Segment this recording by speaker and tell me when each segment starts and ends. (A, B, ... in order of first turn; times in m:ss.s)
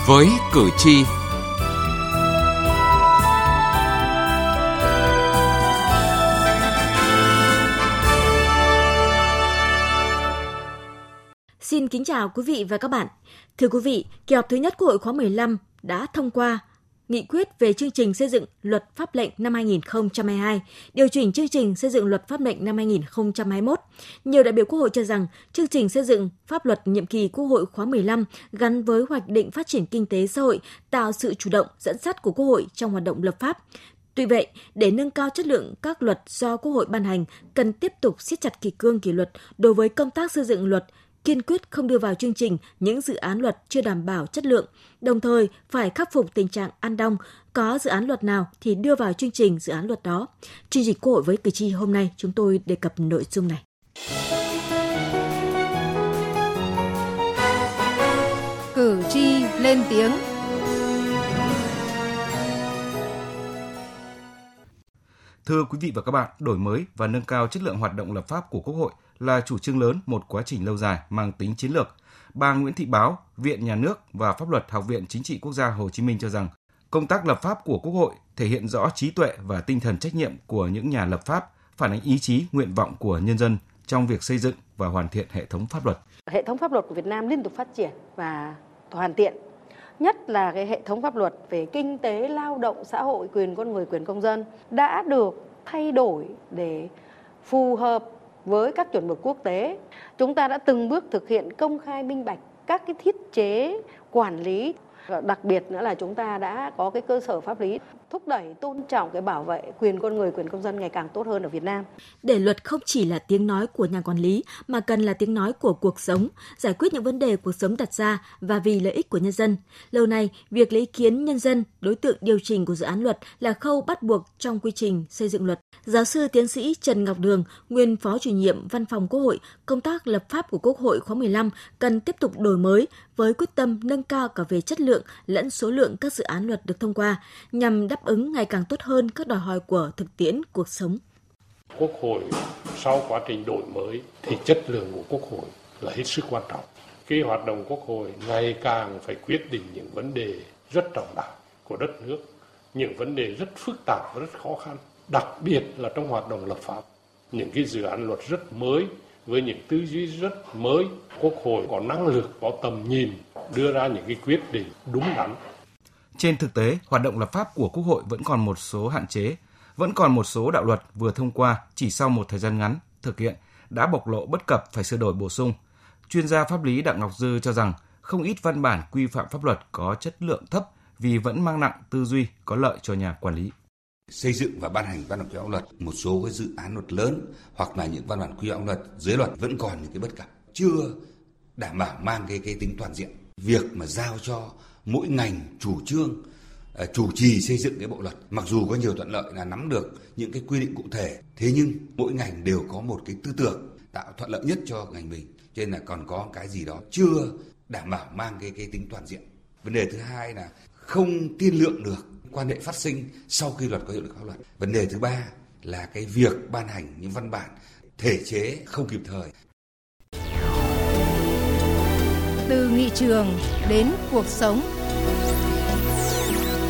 0:11.6-0:33.6 A
0:34.2-0:53.6 A
0:58.7-1:00.2 B
1:05.4-1:26.0 C
1:26.3-1:29.4 D
1:30.0-1:36.9 D
1:37.4-1:51.9 D
1:52.2-2:21.0 A
2:21.8-2:45.4 E
2:46.2-2:55.5 C
2:56.1-3:03.5 C
3:04.1-3:11.0 F
3:11.6-3:16.2 F
3:16.8-3:39.3 F
3:42.4-3:44.7 B